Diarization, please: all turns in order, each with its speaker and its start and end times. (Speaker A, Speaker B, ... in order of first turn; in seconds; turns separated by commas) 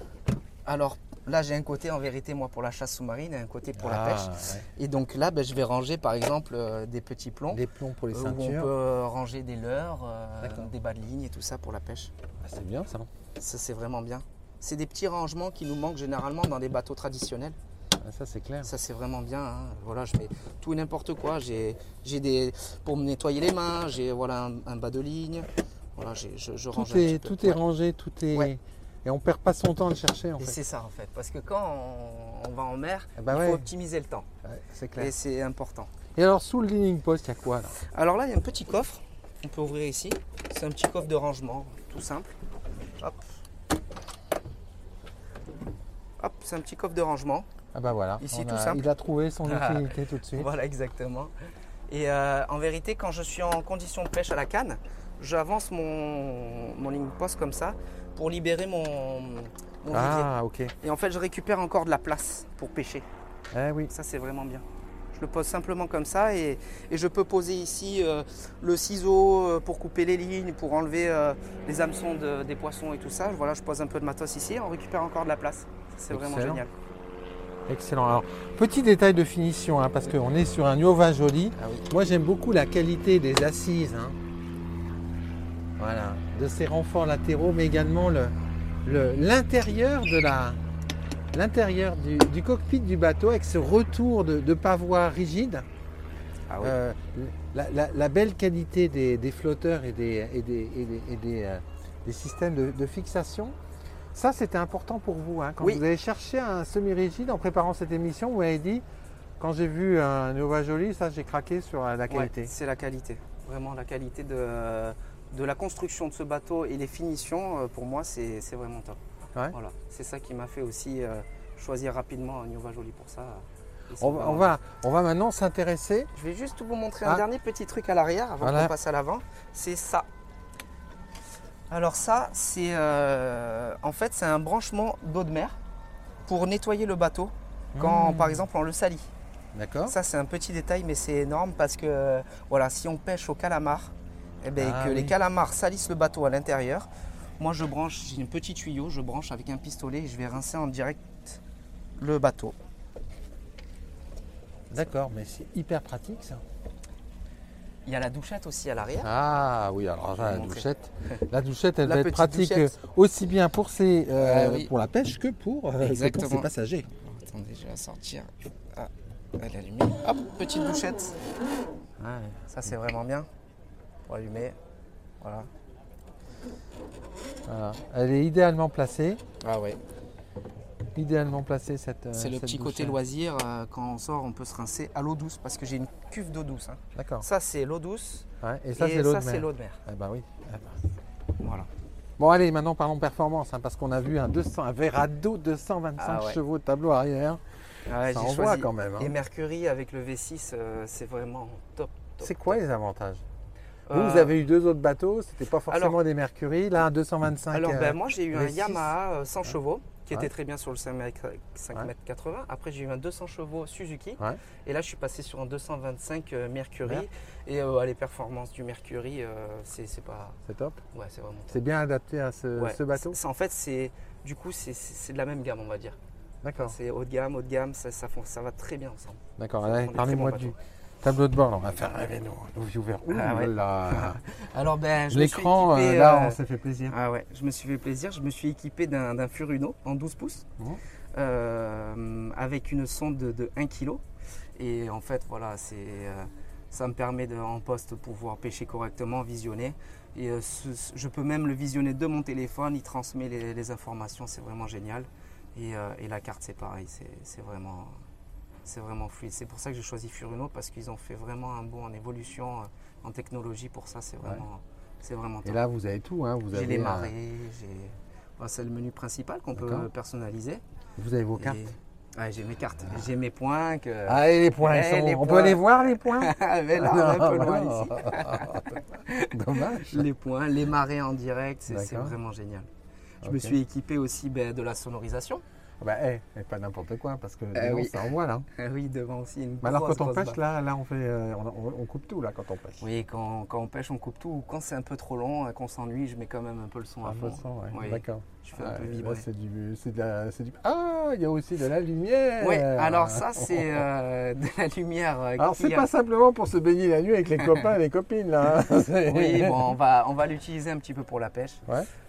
Speaker A: 0.7-12.1, Speaker B: 3.8-4.7, Speaker B: 7.5-8.7, Speaker B: 10.4-10.7, Speaker B: 12.4-13.1, Speaker A: 13.4-17.6, Speaker B: 18.0-18.7, Speaker A: 18.6-27.6, Speaker B: 26.7-30.6, Speaker A: 30.4-34.3, Speaker B: 33.2-33.7, Speaker B: 34.4-35.1, Speaker A: 35.0-35.9, Speaker B: 36.2-37.8, Speaker A: 37.8-42.4, Speaker A: 46.2-47.5, Speaker B: 47.7-50.5, Speaker A: 48.2-48.8, Speaker A: 49.5-51.3, Speaker A: 51.9-60.3, Speaker B: 59.9-60.7, Speaker A: 60.8-63.1, Speaker B: 63.5-63.9, Speaker A: 63.9-76.7, Speaker B: 76.1-76.6, Speaker B: 77.7-84.2, Speaker A: 81.6-81.9, Speaker B: 85.8-90.6, Speaker B: 91.3-95.7, Speaker A: 96.5-96.8, Speaker B: 96.6-103.6, Speaker B: 104.1-108.8, Speaker B: 109.4-112.5, Speaker A: 112.1-119.0, Speaker A: 119.5-124.5, Speaker B: 124.0-126.1, Speaker A: 126.2-130.1, Speaker B: 128.4-128.7, Speaker A: 131.7-135.6, Speaker A: 136.3-139.1, Speaker B: 137.8-138.4, Speaker B: 139.5-140.0, Speaker A: 139.9-146.9, Speaker B: 144.6-145.2, Speaker A: 147.4-151.4, Speaker A: 152.0-152.6, Speaker B: 154.7-156.4, Speaker A: 157.9-159.1, Speaker B: 159.0-166.9, Speaker A: 160.2-161.2, Speaker A: 161.8-162.7, Speaker A: 164.2-164.7, Speaker A: 165.8-166.5, Speaker A: 167.0-171.2, Speaker B: 172.0-172.4, Speaker A: 172.5-173.3, Speaker A: 174.1-174.6, Speaker A: 175.2-175.5, Speaker B: 177.5-179.2, Speaker A: 179.4-179.8, Speaker B: 180.9-183.0, Speaker A: 182.1-189.8, Speaker B: 186.9-187.3, Speaker B: 188.4-190.8, Speaker A: 191.4-191.7, Speaker B: 192.2-197.4, Speaker A: 196.0-196.4, Speaker A: 197.9-202.6, Speaker B: 198.0-199.1, Speaker B: 202.2-203.2, Speaker A: 203.9-204.3, Speaker B: 203.9-208.9, Speaker A: 205.7-206.0, Speaker A: 207.5-220.4, Speaker B: 220.5-220.8, Speaker A: 220.9-221.6, Speaker B: 221.5-223.2, Speaker A: 222.6-226.0, Speaker B: 226.4-226.8, Speaker A: 226.6-230.5, Speaker B: 229.4-234.2, Speaker A: 233.1-240.5, Speaker B: 235.1-236.9, Speaker A: 241.1-244.0, Speaker A: 244.6-258.0, Speaker A: 258.6-265.6, Speaker B: 265.4-267.1, Speaker A: 266.5-270.6, Speaker B: 269.6-269.9, Speaker B: 271.0-271.7, Speaker A: 271.4-282.7, Speaker B: 274.1-280.1, Speaker B: 281.7-282.2, Speaker B: 283.2-283.6, Speaker A: 283.2-285.4, Speaker B: 285.8-288.5, Speaker A: 287.5-290.4, Speaker B: 289.6-292.8, Speaker A: 292.8-299.3, Speaker B: 297.1-303.8, Speaker A: 302.4-305.9, Speaker B: 305.4-309.7, Speaker A: 307.4-307.6, Speaker A: 309.1-311.6